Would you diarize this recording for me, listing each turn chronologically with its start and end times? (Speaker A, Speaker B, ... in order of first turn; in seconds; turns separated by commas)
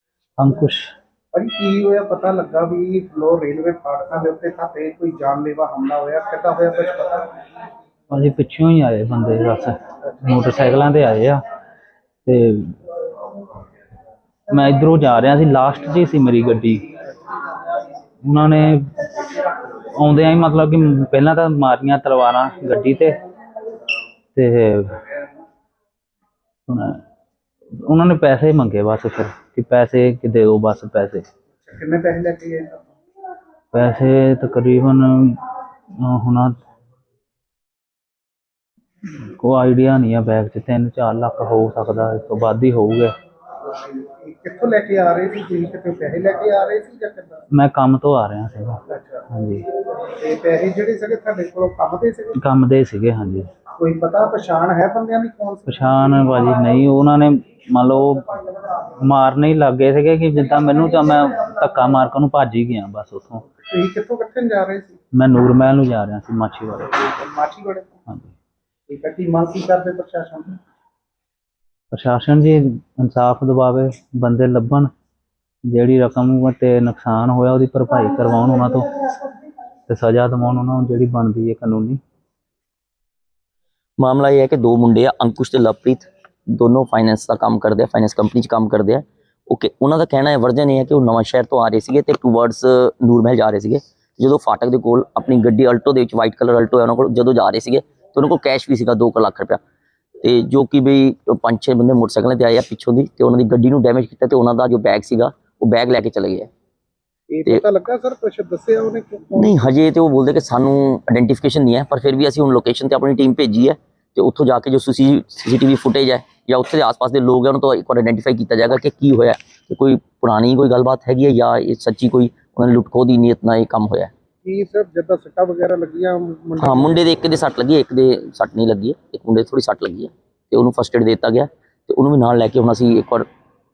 Speaker A: 0.4-0.9, Speaker B: 1.3-7.3, Speaker A: 8.1-11.4, Speaker A: 12.2-12.8, Speaker A: 14.5-16.9, Speaker A: 18.2-19.2, Speaker A: 19.8-23.2, Speaker A: 24.3-25.0, Speaker A: 26.7-27.0, Speaker A: 27.8-31.2, Speaker B: 31.6-32.8, Speaker A: 33.7-35.4, Speaker A: 36.0-36.6, Speaker A: 39.2-43.1, Speaker B: 43.7-47.4, Speaker A: 47.5-49.6, Speaker B: 48.9-49.2, Speaker B: 50.0-52.4, Speaker A: 52.4-53.5, Speaker B: 53.8-56.0, Speaker A: 55.7-58.4, Speaker A: 58.9-63.4, Speaker B: 63.6-65.0, Speaker A: 65.1-67.1, Speaker B: 67.1-68.0, Speaker B: 68.9-70.6, Speaker A: 71.9-74.9, Speaker A: 75.7-78.9, Speaker A: 79.9-82.0, Speaker C: 84.0-99.6, Speaker C: 100.2-106.5, Speaker B: 107.3-109.7, Speaker C: 109.3-124.1, Speaker B: 124.4-127.0, Speaker C: 126.6-133.2